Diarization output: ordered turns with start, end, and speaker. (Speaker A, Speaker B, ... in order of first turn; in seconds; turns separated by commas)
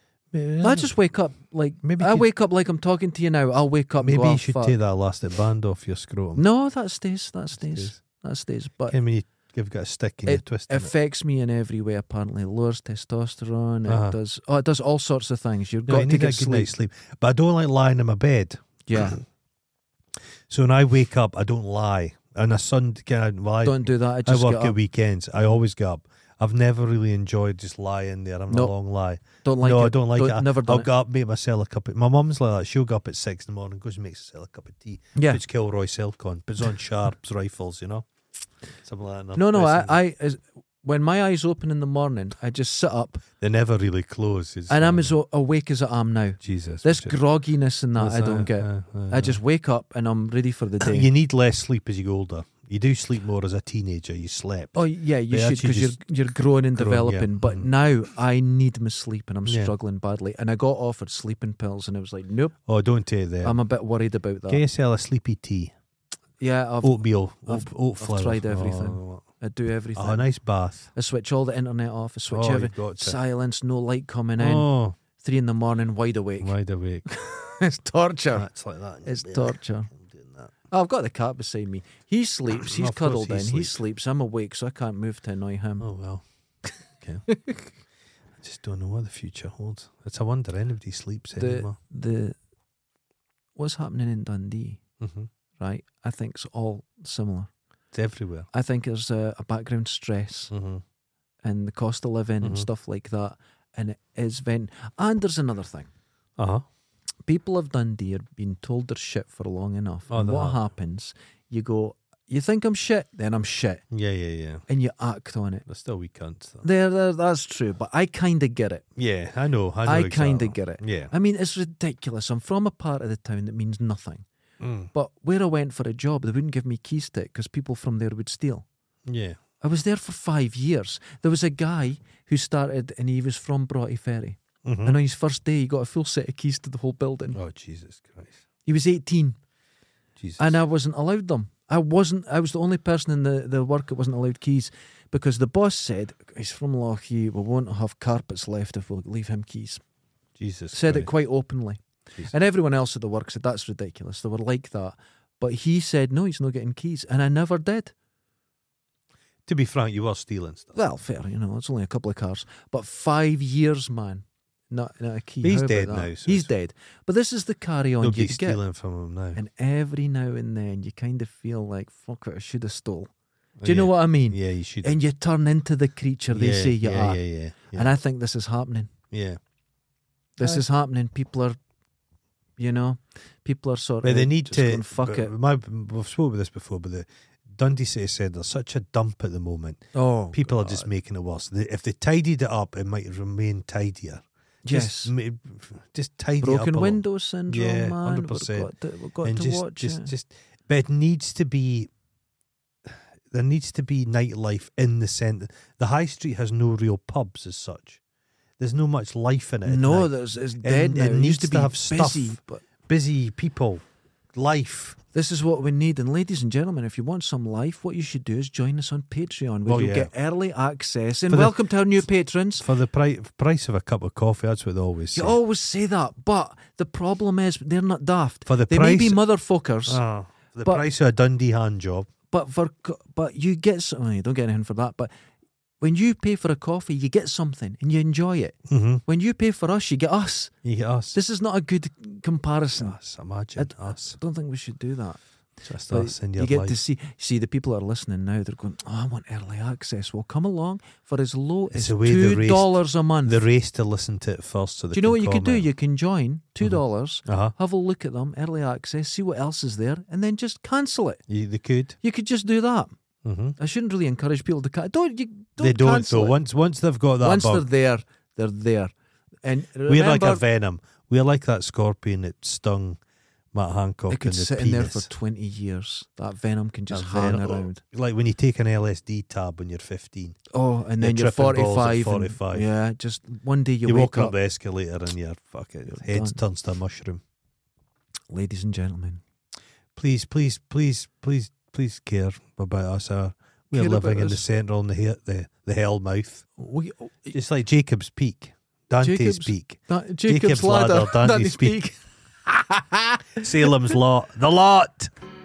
Speaker A: 0.3-0.9, Speaker B: 0.6-4.8, Speaker A: 1.8-2.3, Speaker A: 4.0-6.4, Speaker B: 6.4-9.0, Speaker A: 7.6-8.0, Speaker A: 8.9-10.9, Speaker B: 10.3-16.7, Speaker A: 13.9-14.2, Speaker A: 15.9-19.2, Speaker B: 18.9-19.2, Speaker A: 20.5-38.1, Speaker B: 23.6-24.8, Speaker B: 29.4-30.9, Speaker B: 35.1-35.4, Speaker A: 38.8-40.0, Speaker B: 39.4-43.2, Speaker A: 43.4-45.1, Speaker B: 44.7-51.1, Speaker A: 46.4-47.2, Speaker A: 48.0-49.4, Speaker A: 50.8-54.8, Speaker B: 54.8-62.6, Speaker A: 55.3-56.0, Speaker A: 56.8-57.7, Speaker A: 59.5-59.7, Speaker A: 62.7-63.6, Speaker B: 63.4-64.6, Speaker A: 64.5-65.7, Speaker B: 66.4-70.3, Speaker A: 66.8-69.2, Speaker A: 70.0-70.9, Speaker B: 70.9-76.6, Speaker A: 72.3-73.2, Speaker A: 74.4-75.0, Speaker A: 76.4-77.1, Speaker B: 77.1-78.5, Speaker A: 78.3-80.5, Speaker B: 79.0-79.9, Speaker B: 80.7-85.9, Speaker A: 82.5-83.8, Speaker A: 85.8-86.2, Speaker B: 87.3-87.6, Speaker A: 88.4-91.8, Speaker B: 91.4-92.4, Speaker B: 93.6-94.8, Speaker A: 95.0-95.3, Speaker B: 95.6-97.5, Speaker A: 97.9-98.5, Speaker B: 98.5-100.5, Speaker A: 100.5-100.8, Speaker B: 101.4-105.9, Speaker A: 102.4-102.7, Speaker A: 106.4-106.7, Speaker B: 107.3-113.8, Speaker A: 110.1-110.6, Speaker A: 113.9-114.6, Speaker B: 114.7-115.7, Speaker A: 115.7-116.7, Speaker B: 116.6-118.8, Speaker A: 119.0-121.1, Speaker B: 119.8-124.2, Speaker A: 124.6-124.9, Speaker B: 124.9-128.7, Speaker A: 129.1-129.4, Speaker B: 129.6-137.4, Speaker A: 134.6-135.0, Speaker A: 137.3-138.4, Speaker B: 138.7-139.4, Speaker A: 140.2-140.6, Speaker B: 140.4-149.8, Speaker A: 150.4-151.1, Speaker B: 150.7-157.9, Speaker A: 159.5-160.8, Speaker B: 160.8-168.6, Speaker A: 165.4-166.5, Speaker A: 168.0-169.4, Speaker B: 169.3-173.1, Speaker A: 173.6-175.0, Speaker B: 173.6-177.2, Speaker A: 176.3-177.9, Speaker B: 177.7-178.9, Speaker A: 179.1-179.4, Speaker B: 180.4-181.6, Speaker B: 182.6-185.3, Speaker A: 184.0-189.8, Speaker B: 189.9-190.9, Speaker A: 190.3-198.7, Speaker B: 194.7-195.1, Speaker B: 196.4-200.1, Speaker A: 199.2-201.9, Speaker A: 202.9-208.0, Speaker A: 208.6-210.1, Speaker B: 209.6-212.6, Speaker A: 210.6-215.0, Speaker B: 215.1-222.7, Speaker A: 219.7-220.1, Speaker A: 221.3-221.6, Speaker A: 222.6-225.3, Speaker B: 225.2-230.0, Speaker A: 228.5-229.2, Speaker A: 229.9-232.1, Speaker B: 232.3-235.1, Speaker B: 235.8-240.5, Speaker A: 238.7-239.0, Speaker A: 240.6-241.2, Speaker B: 241.1-243.0, Speaker A: 242.8-244.2, Speaker B: 243.6-245.2, Speaker A: 245.6-246.8, Speaker B: 245.9-253.4, Speaker A: 251.7-255.7, Speaker B: 254.9-261.2, Speaker A: 256.6-257.6, Speaker A: 261.3-262.0, Speaker B: 262.0-262.9, Speaker A: 263.2-263.6, Speaker B: 263.6-266.4, Speaker A: 265.6-267.7, Speaker B: 267.2-268.9, Speaker B: 269.4-270.4, Speaker A: 269.9-273.0, Speaker A: 273.5-275.1, Speaker B: 274.1-277.8, Speaker A: 276.9-280.4, Speaker B: 280.5-284.4, Speaker A: 281.0-282.7, Speaker A: 283.9-287.2, Speaker B: 285.9-286.4, Speaker B: 288.3-289.2, Speaker A: 290.0-296.5, Speaker B: 293.7-294.4, Speaker B: 296.6-297.4, Speaker A: 297.3-301.8, Speaker B: 299.0-303.9, Speaker A: 303.4-305.1